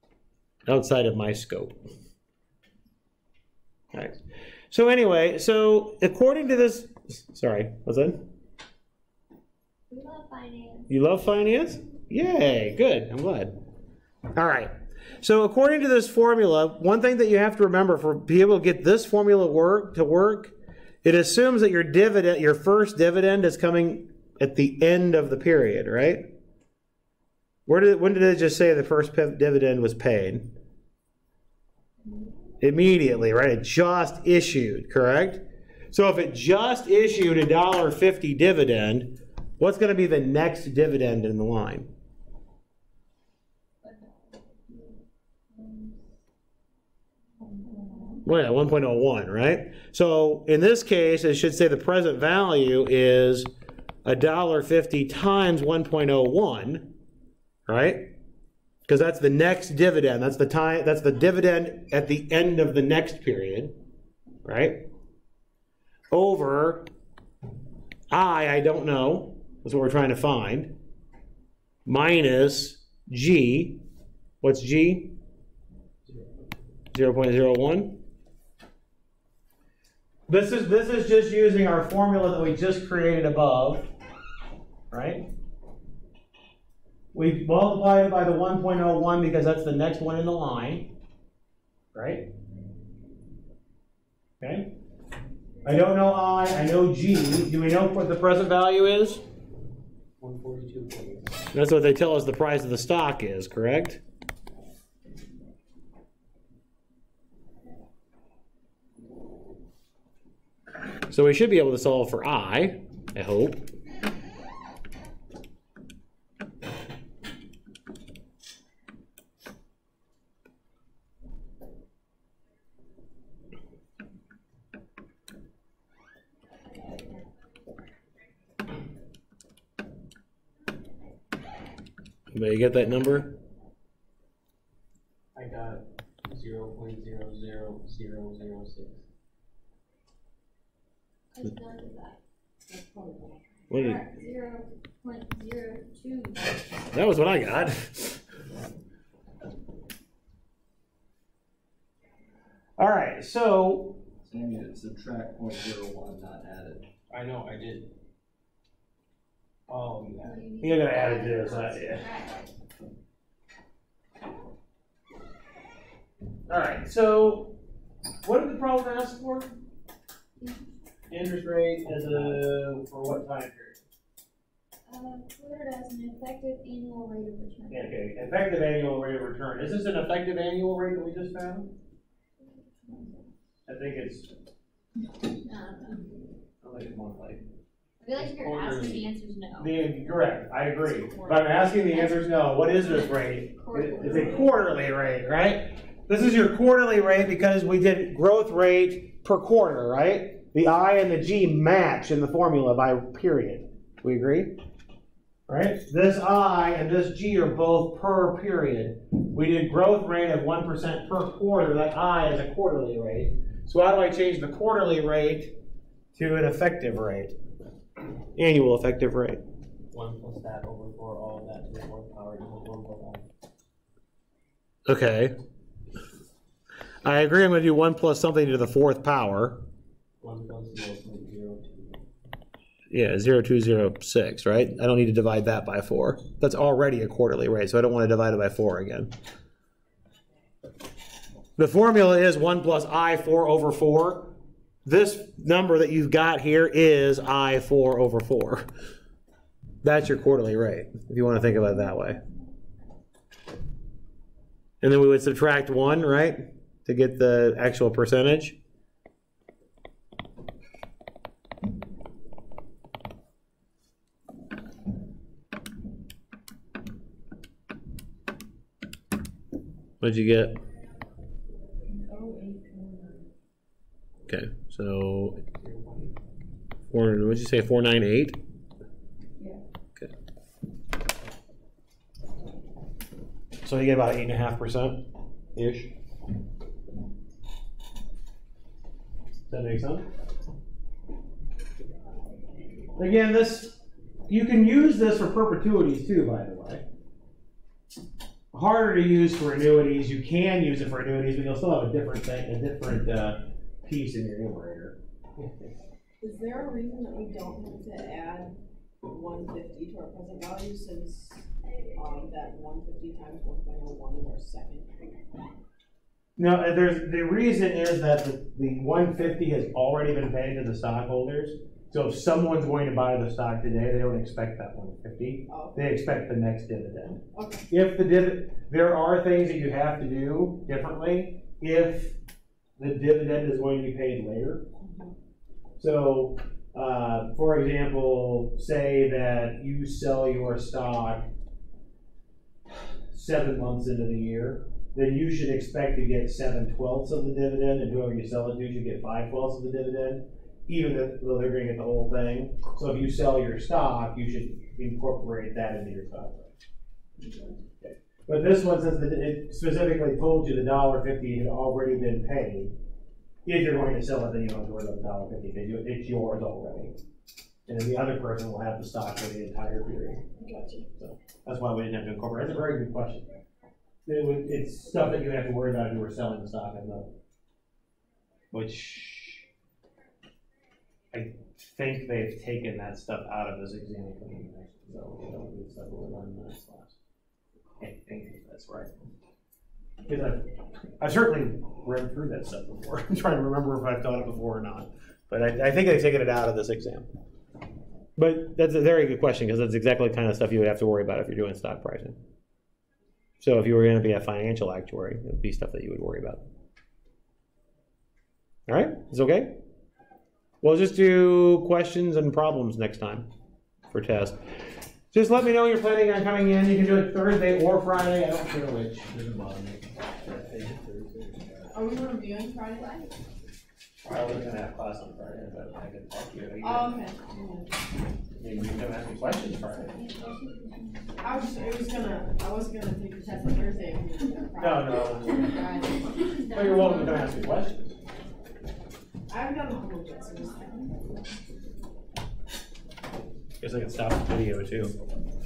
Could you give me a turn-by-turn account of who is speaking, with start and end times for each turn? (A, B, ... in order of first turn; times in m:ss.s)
0:00.6-0:01.8 A
0:03.9-0:04.2 A
0:04.7-0:08.2 A
0:09.9-0:10.9 B
0:10.9-0:13.6 A
0:14.3-0:26.3 A
0:27.7-0:30.5 A
0:32.6-0:41.9 A
0:43.8-0:44.3 B
0:47.5-0:48.2 C
0:48.2-0:53.5 A
0:54.0-0:56.9 A
0:57.6-0:58.1 A
0:58.8-1:03.7 A
1:04.4-1:04.8 A
1:06.1-1:06.8 A
1:08.1-1:10.7 A
1:11.8-1:13.8 A
1:14.4-1:15.1 A
1:16.9-1:18.0 A
1:20.3-1:23.9 A
1:24.9-1:25.2 A
1:27.1-1:30.9 A
1:31.9-1:32.3 A
1:34.4-1:34.7 A
1:35.6-1:39.2 A
1:40.2-1:41.4 D
1:41.5-1:44.0 A
1:51.1-1:53.6 A
2:12.3-2:13.3 A
2:15.3-2:19.0 D
2:21.3-2:22.2 B
2:22.7-2:23.6 C
2:23.7-2:24.0 A
2:23.7-2:26.6 B
2:26.9-2:28.2 A
2:32.8-2:34.0 A
2:34.2-2:36.9 E
2:37.1-2:37.9 D
2:39.7-2:40.4 D
2:40.2-2:42.5 B
2:40.6-2:42.0 A
2:46.5-2:47.5 A
2:48.2-2:49.5 A
2:50.4-2:50.7 B
2:51.1-2:53.8 A
2:54.9-2:57.9 B
2:57.7-3:01.7 A
3:02.4-3:03.3 B
3:03.7-3:04.3 A
3:05.4-3:06.0 B
3:06.6-3:07.4 A
3:08.0-3:09.7 B
3:08.2-3:09.0 D
3:09.6-3:24.5 A
3:11.9-3:14.5 B
3:25.5-3:35.5 A
3:36.1-3:37.3 A
3:38.4-3:39.4 A
3:39.9-3:43.2 D
3:44.9-3:45.3 A
3:47.0-3:49.6 A
3:50.2-3:52.0 D
3:52.9-3:59.1 A
4:01.6-4:04.3 A
4:04.8-4:08.6 A
4:09.8-4:12.2 A
4:14.8-4:18.6 A
4:30.0-4:30.6 A
4:31.9-4:33.3 C
4:34.3-4:35.4 A
4:35.5-4:36.1 D
4:36.9-4:38.4 A
4:43.6-4:45.0 A
4:45.6-4:45.9 A
4:49.5-4:50.0 A
4:53.0-4:56.8 A
4:58.5-5:05.5 A
5:06.2-5:15.1 C
5:16.4-5:32.2 A
5:25.5-5:25.8 C
5:27.3-5:27.6 C
5:32.8-5:34.6 A
5:34.8-5:35.1 C
5:35.8-5:41.3 A
5:43.1-5:56.5 A
5:57.8-6:02.7 A
6:03.4-6:06.9 A
6:07.7-6:10.2 A
6:10.4-6:10.8 C
6:11.0-6:13.3 A
6:14.0-6:17.1 A
6:18.5-6:19.4 A
6:21.1-6:26.9 A
6:27.8-6:29.1 A
6:30.0-6:30.5 A
6:31.0-6:37.1 A
6:38.2-6:42.2 A
6:43.4-6:46.4 A
6:48.7-6:49.6 A
6:50.6-6:53.2 A
6:53.9-6:54.4 A
6:55.1-6:59.7 A
6:59.3-7:01.7 E
7:01.7-7:03.1 C
7:04.0-7:07.0 A
7:06.6-7:07.7 C
7:08.4-7:09.9 A
7:09.9-7:11.2 B
7:11.2-7:16.4 C
7:14.6-7:15.6 A
7:16.2-7:17.3 B
7:16.5-7:17.9 A
7:19.3-7:21.0 C
7:23.6-7:24.9 A